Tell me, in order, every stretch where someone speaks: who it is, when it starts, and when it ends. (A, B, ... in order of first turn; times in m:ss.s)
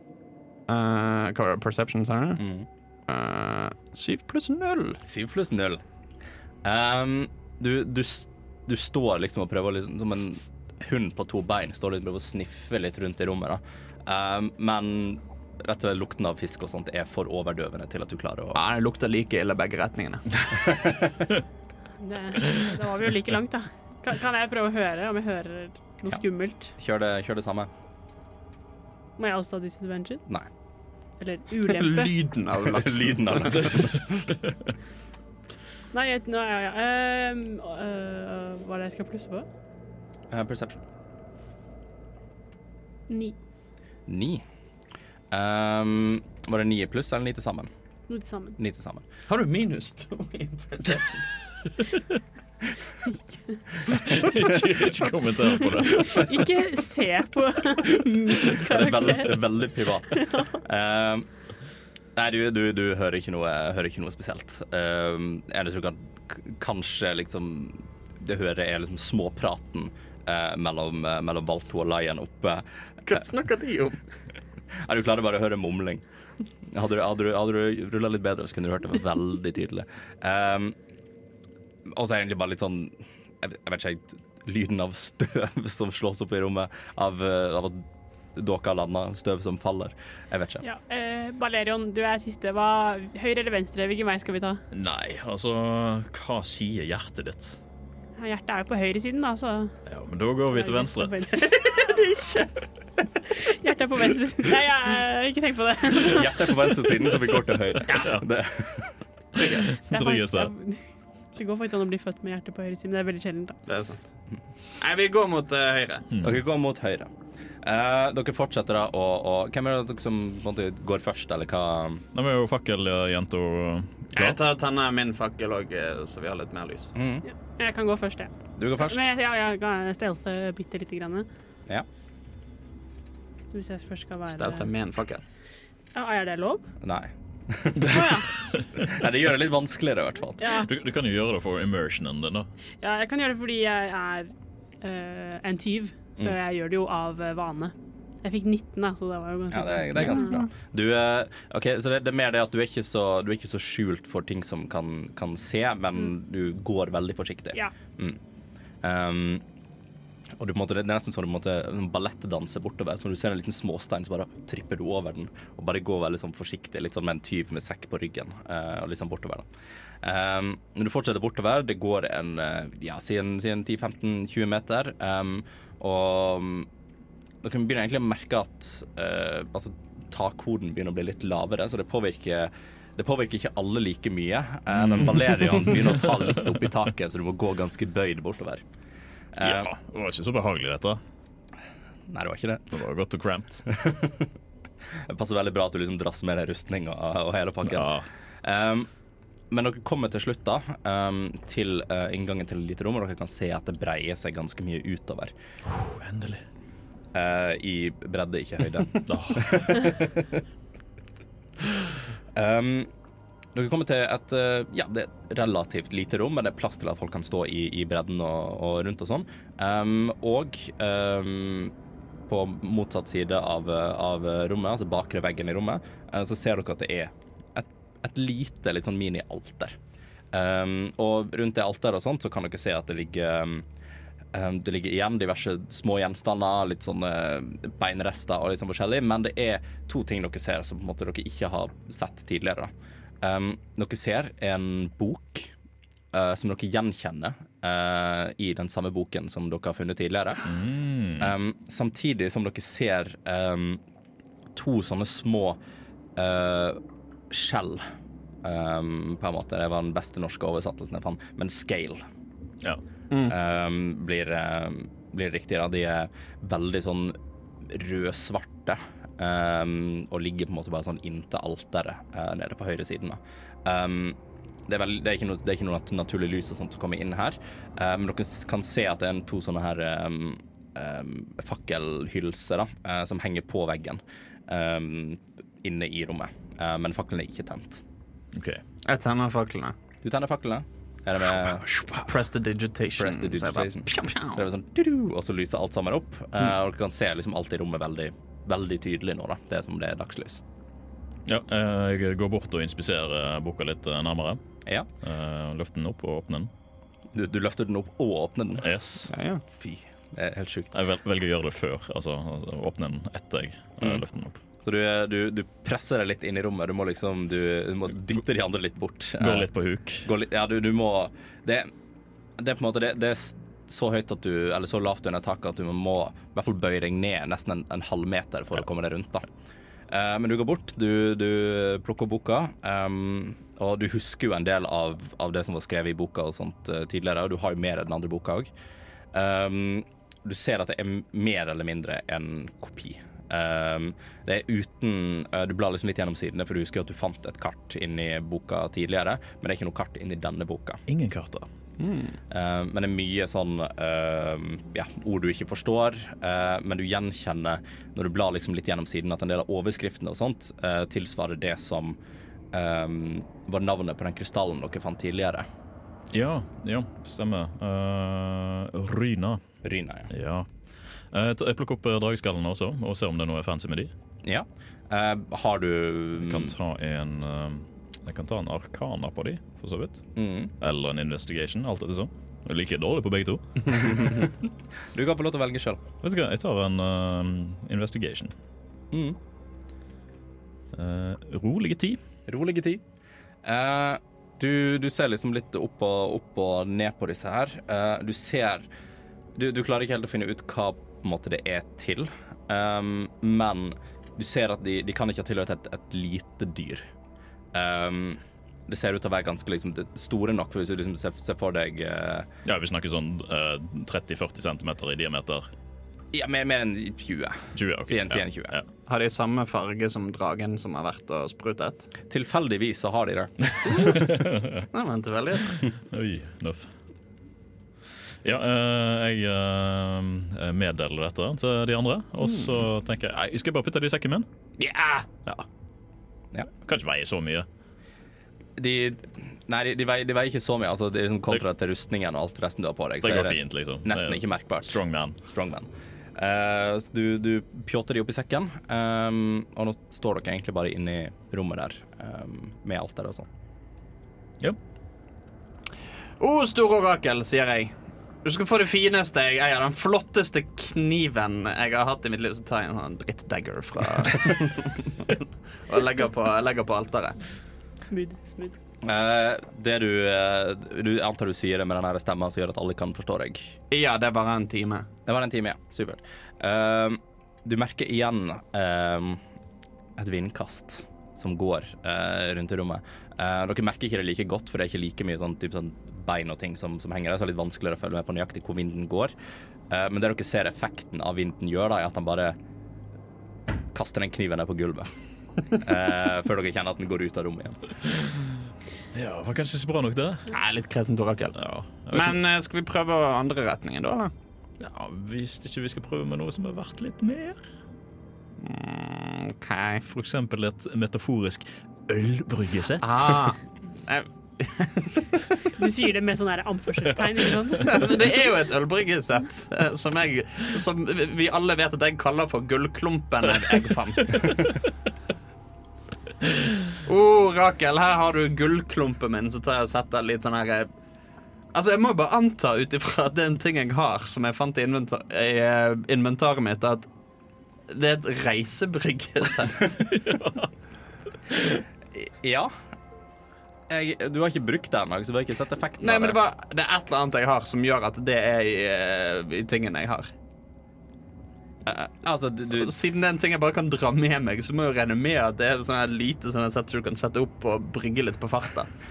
0:00.7-0:02.4 A
0:02.4-0:02.7 B
0:03.1-0:05.0 A
0:05.0-0:05.8 B
0:06.6-0:18.6 B
0:18.5-0:20.4 A
0:20.6-0:21.0 B
0:22.0-0:26.7 C
0:26.8-0:27.7 B
0:29.2-0:30.2 C
0:31.2-0:32.1 C
0:31.6-0:33.8 A
0:32.6-0:34.3 B
0:34.1-0:34.5 D
0:35.9-0:39.5 C
0:40.3-0:40.8 B
0:43.1-0:43.4 C
0:44.1-0:44.4 B
0:45.3-0:47.7 B
0:48.1-0:48.6 C
0:48.6-0:49.0 B
0:49.3-0:51.2 A
0:53.0-0:53.6 C
0:53.9-0:56.4 D
0:55.8-0:59.4 C
0:58.4-1:01.3 B
1:00.1-1:00.6 C
1:02.2-1:13.2 B
1:13.0-1:14.0 A
1:14.7-1:16.0 B
1:16.6-1:20.8 B
1:21.8-1:30.6 B
1:30.6-1:34.6 C
1:34.7-1:37.6 D
1:38.2-1:39.7 C
1:39.8-1:41.3 D
1:40.5-1:41.9 C
1:41.3-1:42.6 A
1:43.3-1:46.8 C
1:46.0-1:48.9 B
1:47.8-1:48.2 D
1:49.3-1:49.8 A
1:49.4-1:50.5 D
1:49.9-1:53.6 C
1:53.7-1:54.0 A
1:54.8-1:56.1 A
1:56.1-1:56.4 D
1:56.2-1:57.1 B
1:57.6-2:02.0 B
2:02.1-2:04.4 D
2:04.1-2:06.9 A
2:06.9-2:07.2 B
2:07.2-2:11.3 C
2:08.6-2:09.1 B
2:13.5-2:14.7 C
2:14.3-2:15.2 A
2:15.9-2:16.6 C
2:16.8-2:18.1 B
2:17.8-2:18.9 D
2:17.8-2:18.3 C
2:18.7-2:20.5 B
2:20.4-2:20.7 C
2:20.6-2:22.5 D
2:22.8-2:30.3 C
2:29.5-2:38.2 B
2:30.1-2:30.4 A
2:38.8-2:39.4 B
2:40.4-2:49.5 B
2:50.0-2:56.7 B
2:57.4-3:08.6 B
3:04.7-3:05.8 D
3:09.3-3:09.7 B
3:09.4-3:11.0 D
3:12.1-3:12.7 B
3:12.7-3:13.6 D
3:13.6-3:14.3 B
3:15.0-3:18.9 B
3:17.6-3:18.1 D
3:19.5-3:25.3 B
3:25.6-3:26.4 D
3:27.1-3:30.4 B
3:29.1-3:29.8 D
3:32.3-3:32.9 B
3:33.5-3:41.7 B
3:42.3-3:49.8 B
3:50.3-3:53.6 B
3:54.3-4:05.5 B
4:06.1-4:10.4 B
4:10.4-4:11.3 D
4:11.2-4:13.8 B
4:14.5-4:15.6 B
4:16.2-4:17.8 B
4:18.4-4:22.0 B
4:23.1-4:23.4 A
4:23.3-4:47.8 B
4:48.3-4:48.6 D
4:48.8-4:49.7 A
4:50.0-4:51.6 B
4:51.8-4:54.4 A
4:53.0-5:00.4 B
5:01.2-5:04.4 D
5:05.0-5:06.5 D
5:07.1-5:08.7 B
5:08.6-5:09.1 D
5:09.1-5:09.4 A
5:09.5-5:10.7 B
5:10.7-5:14.4 D
5:14.6-5:19.5 B
5:19.2-5:20.1 D
5:20.0-5:21.7 B
5:22.4-5:29.2 B
5:29.9-5:38.5 B
5:39.1-5:50.8 B
5:50.9-5:51.5 D
5:51.8-5:52.2 A
5:52.3-6:02.0 B
6:02.5-6:05.4 B
6:06.1-6:09.4 D
6:09.6-6:10.1 B
6:10.1-6:10.5 D
6:11.1-6:13.9 D
6:14.2-6:16.5 B
6:16.2-6:20.0 D
6:20.2-6:20.5 B
6:20.6-6:24.2 D
6:23.7-6:24.3 B
6:24.9-6:25.8 B
6:26.0-6:28.3 D
6:28.9-6:29.2 B
6:30.7-6:32.0 D
6:32.3-6:32.8 B
6:33.4-6:38.7 B
6:39.4-6:46.8 B
6:47.5-6:52.3 B
6:52.4-6:55.5 D
6:56.1-6:58.5 B
6:57.5-6:58.6 D
6:58.9-7:01.9 A
7:02.1-7:03.9 B
7:03.4-7:04.7 D
7:04.7-7:05.6 A
7:05.9-7:06.7 D
7:08.2-7:14.3 D
7:12.2-7:12.6 A
7:14.6-7:15.1 A
7:16.6-7:17.5 D
7:18.6-7:33.3 B
7:23.0-7:25.2 D
7:36.2-7:37.7 A
7:38.2-7:47.2 A
7:47.8-7:48.6 C
7:48.8-7:53.5 B
7:53.7-7:54.9 A
7:55.0-7:59.2 B
8:00.0-8:09.1 B
8:09.7-8:12.4 B
8:13.7-8:14.9 B
8:15.5-8:17.6 B
8:17.9-8:18.2 D
8:18.9-8:20.3 D
8:20.3-8:21.4 A
8:21.4-8:22.2 D
8:21.9-8:24.1 A
8:24.6-8:27.4 D
8:28.4-8:29.8 A
8:29.9-8:33.2 D
8:32.8-8:35.2 A
8:35.6-8:37.9 C
8:37.6-8:44.6 A
8:46.8-8:50.7 A
8:51.5-8:56.9 A
8:57.7-8:59.8 A
8:59.8-9:00.5 D
9:01.3-9:01.6 D
9:01.9-9:02.5 B
9:03.7-9:06.2 B
9:05.8-9:10.1 A
9:12.0-9:12.7 B
9:12.5-9:18.7 A